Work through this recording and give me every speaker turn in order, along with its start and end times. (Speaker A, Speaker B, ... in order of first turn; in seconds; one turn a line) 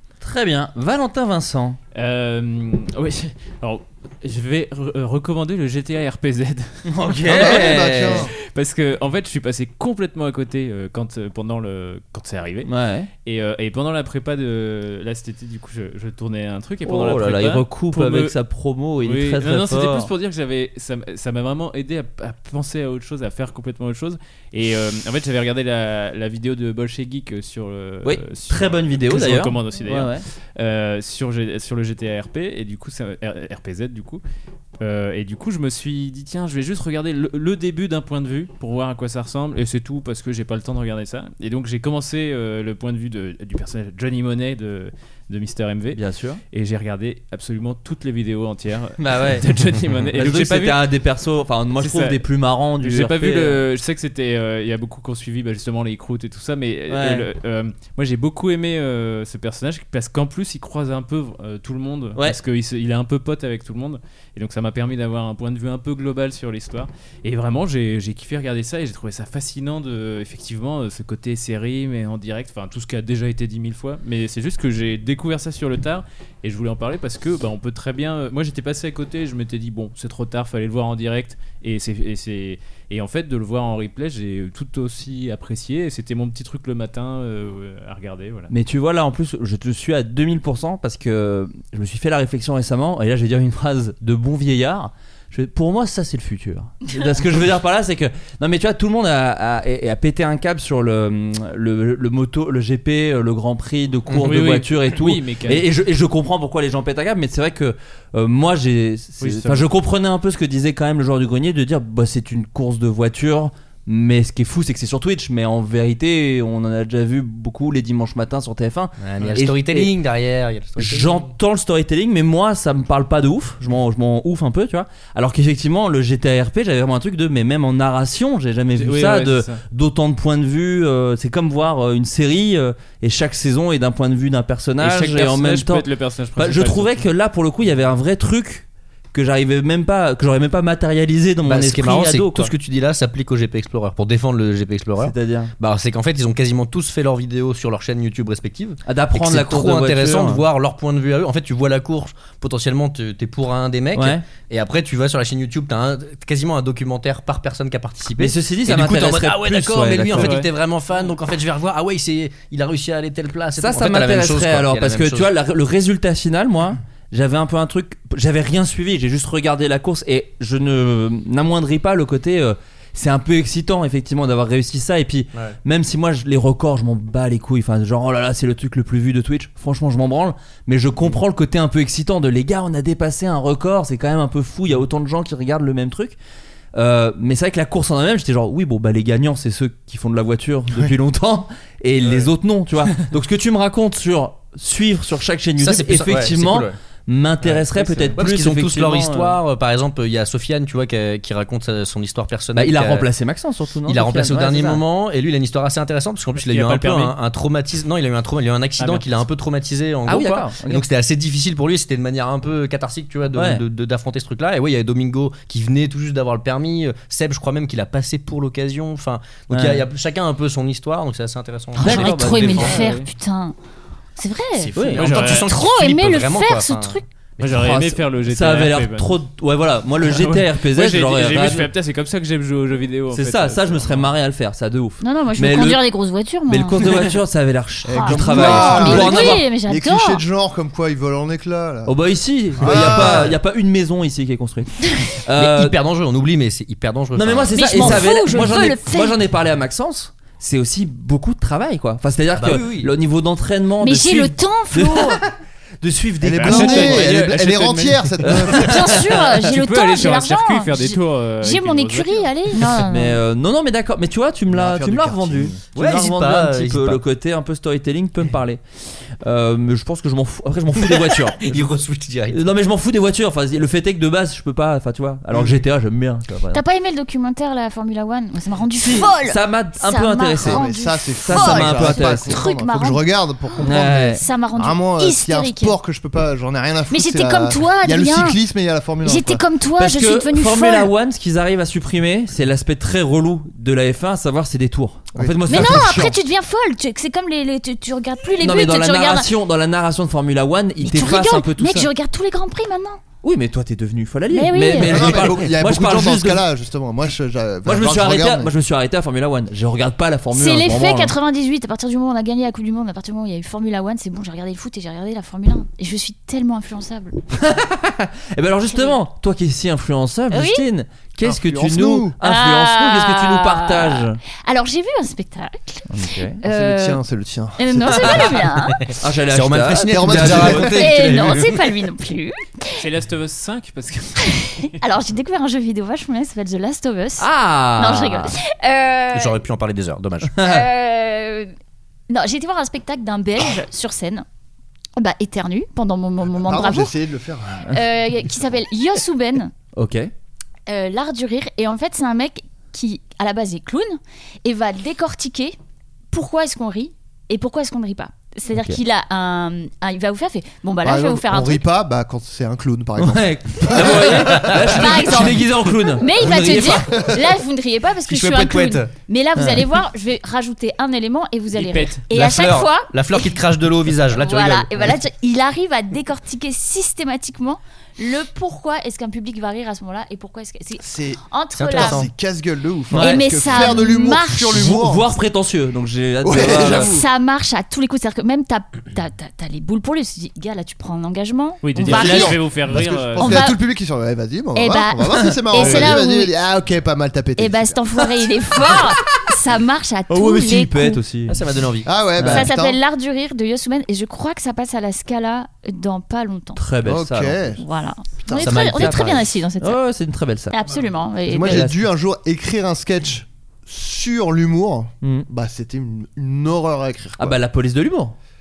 Speaker A: 0.2-1.8
Speaker B: 1.9-12.7
Speaker A: 6.8-8.2
Speaker C: 7.3-8.3
Speaker A: 12.7-13.1
Speaker B: 13.2-18.4
Speaker A: 16.8-20.1
Speaker B: 19.0-34.2
Speaker A: 28.0-30.2
Speaker B: 34.8-46.0
Speaker A: 45.9-46.4
Speaker B: 46.5-50.9
Speaker A: 49.0-49.5
Speaker A: 50.1-53.6
Speaker B: 51.8-52.2
Speaker B: 52.8-88.5
Speaker A: 56.9-57.3
Speaker A: 88.5-119.9
Speaker B: 104.1-105.7
Speaker B: 109.2-109.7
Speaker D: 119.0-121.3
Speaker A: 120.8-142.5
Speaker B: 128.8-129.6
Speaker B: 134.8-137.1
Speaker D: 141.5-165.3
Speaker A: 145.0-145.5
Speaker A: 148.9-150.4
Speaker A: 153.9-154.2
Speaker A: 158.1-160.4
Speaker B: 160.1-160.5
Speaker A: 163.6-186.2
Speaker A: 186.8-199.4
Speaker D: 195.6-196.8
Speaker B: 197.4-198.2
Speaker D: 198.2-203.1
Speaker A: 202.6-204.8
Speaker D: 203.9-222.8
Speaker B: 206.3-207.2
Speaker B: 208.8-209.1
Speaker A: 210.1-210.8
Speaker A: 213.3-213.6
Speaker A: 219.5-219.8
Speaker E: 221.8-223.6
Speaker A: 221.8-222.8
Speaker B: 222.6-223.1
Speaker E: 224.2-227.1
Speaker D: 224.6-227.8
Speaker A: 224.8-225.3
Speaker B: 225.0-225.5
Speaker B: 227.4-229.1
Speaker A: 227.4-231.7
Speaker B: 230.1-234.1
Speaker A: 233.1-235.8
Speaker E: 235.0-236.8
Speaker A: 236.5-239.4
Speaker E: 237.9-240.2
Speaker C: 237.9-242.0
Speaker A: 241.9-245.8
Speaker C: 242.6-243.3
Speaker D: 245.4-248.1
Speaker A: 247.2-255.2
Speaker E: 247.5-249.2
Speaker D: 252.4-252.9
Speaker E: 253.8-255.2
Speaker A: 255.8-257.1
Speaker C: 256.2-258.9
Speaker B: 256.4-258.7
Speaker A: 258.2-259.0
Speaker E: 258.6-263.2
Speaker B: 259.5-262.4
Speaker A: 262.7-268.6
Speaker C: 264.5-265.6
Speaker D: 265.7-267.0
Speaker A: 269.2-271.4
Speaker D: 270.9-272.4
Speaker A: 272.3-276.6
Speaker E: 276.5-285.8
Speaker A: 278.8-280.6
Speaker C: 280.4-289.4
Speaker A: 281.2-282.4
Speaker A: 283.6-284.2
Speaker E: 286.9-288.4
Speaker E: 289.0-290.9
Speaker A: 289.8-296.1
Speaker C: 295.1-296.1
Speaker E: 295.5-299.3
Speaker A: 298.4-301.9
Speaker E: 300.8-303.0
Speaker A: 303.2-306.4
Speaker E: 304.3-305.1
Speaker C: 304.8-308.5
Speaker A: 307.6-311.1
Speaker E: 310.3-317.2
Speaker A: 317.3-324.2
Speaker E: 318.7-319.0
Speaker E: 320.3-320.7
Speaker C: 321.2-322.2
Speaker E: 322.2-327.0
Speaker A: 325.9-326.4
Speaker C: 326.4-328.4
Speaker E: 327.6-328.9
Speaker A: 328.9-330.8
Speaker D: 329.3-331.7
Speaker C: 329.9-331.0
Speaker E: 330.6-332.8
Speaker B: 332.8-334.8
Speaker E: 334.3-339.3
Speaker A: 337.2-338.3
Speaker D: 339.1-340.4
Speaker A: 340.4-340.6
Speaker E: 340.4-341.5
Speaker E: 342.1-344.2
Speaker E: 345.0-346.9
Speaker C: 346.4-347.7
Speaker E: 347.7-349.5
Speaker A: 349.7-350.1
Speaker E: 350.7-355.6
Speaker E: 356.1-361.6
Speaker A: 358.5-358.8
Speaker C: 360.8-364.8
Speaker A: 363.0-366.9
Speaker E: 364.7-373.4
Speaker C: 366.9-367.2
Speaker D: 368.1-368.9
Speaker B: 371.5-372.1
Speaker D: 372.1-375.0
Speaker E: 374.1-382.1
Speaker C: 380.8-385.1
Speaker D: 381.5-382.1
Speaker A: 382.9-383.2
Speaker E: 382.9-384.7
Speaker A: 384.5-387.0
Speaker C: 386.2-387.1
Speaker E: 386.4-392.5
Speaker B: 391.6-393.5
Speaker C: 391.8-397.8
Speaker E: 393.2-393.6
Speaker E: 394.6-396.3
Speaker D: 395.6-395.9
Speaker E: 397.4-401.0
Speaker A: 400.1-401.4
Speaker D: 401.3-401.9
Speaker C: 401.9-402.8
Speaker A: 402.2-402.5
Speaker E: 402.3-406.6
Speaker A: 406.6-407.4
Speaker C: 406.8-407.6
Speaker E: 407.6-409.8
Speaker A: 408.4-410.6
Speaker D: 408.5-409.1
Speaker E: 410.5-411.7
Speaker C: 411.3-417.4
Speaker A: 411.4-411.9
Speaker A: 415.0-415.3
Speaker A: 417.2-418.2